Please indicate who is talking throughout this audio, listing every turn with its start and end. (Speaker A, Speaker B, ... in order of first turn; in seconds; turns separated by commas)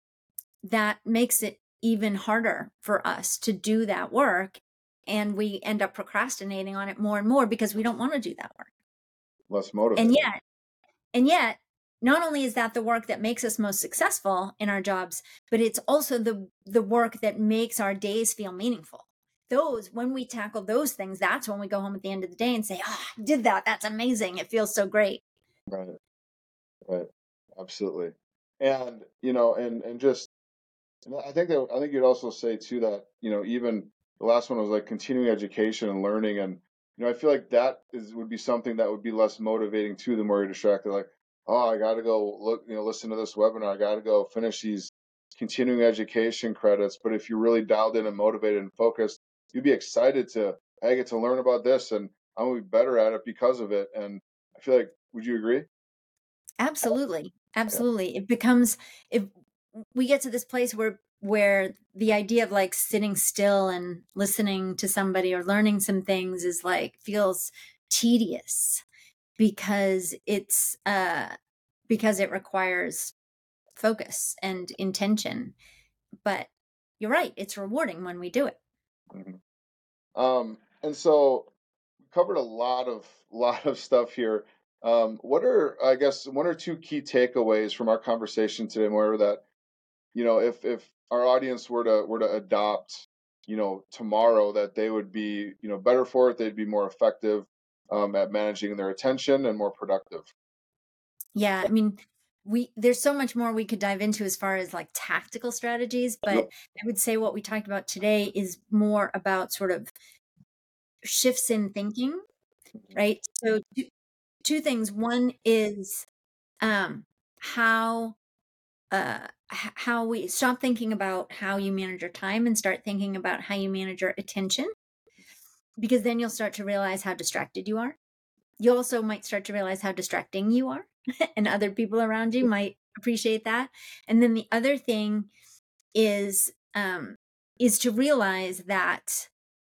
Speaker A: 0.6-8.7, Speaker B: 9.5-10.2, Speaker A: 10.0-10.4, Speaker A: 11.2-25.2, Speaker B: 25.7-26.0, Speaker B: 26.9-30.3, Speaker B: 31.1-55.7, Speaker A: 56.6-59.3, Speaker A: 59.8-68.8, Speaker A: 69.4-71.3, Speaker A: 71.9-73.1, Speaker A: 73.8-75.5, Speaker A: 76.2-78.6, Speaker B: 79.1-79.4, Speaker B: 80.2-81.5, Speaker B: 82.0-89.4, Speaker B: 90.1-100.3, Speaker A: 101.3-109.9, Speaker A: 111.0-112.2, Speaker A: 112.9-113.9, Speaker A: 114.4-116.1, Speaker A: 116.6-118.2, Speaker A: 118.9-124.7, Speaker A: 125.8-128.0, Speaker A: 128.6-135.3, Speaker A: 135.9-139.3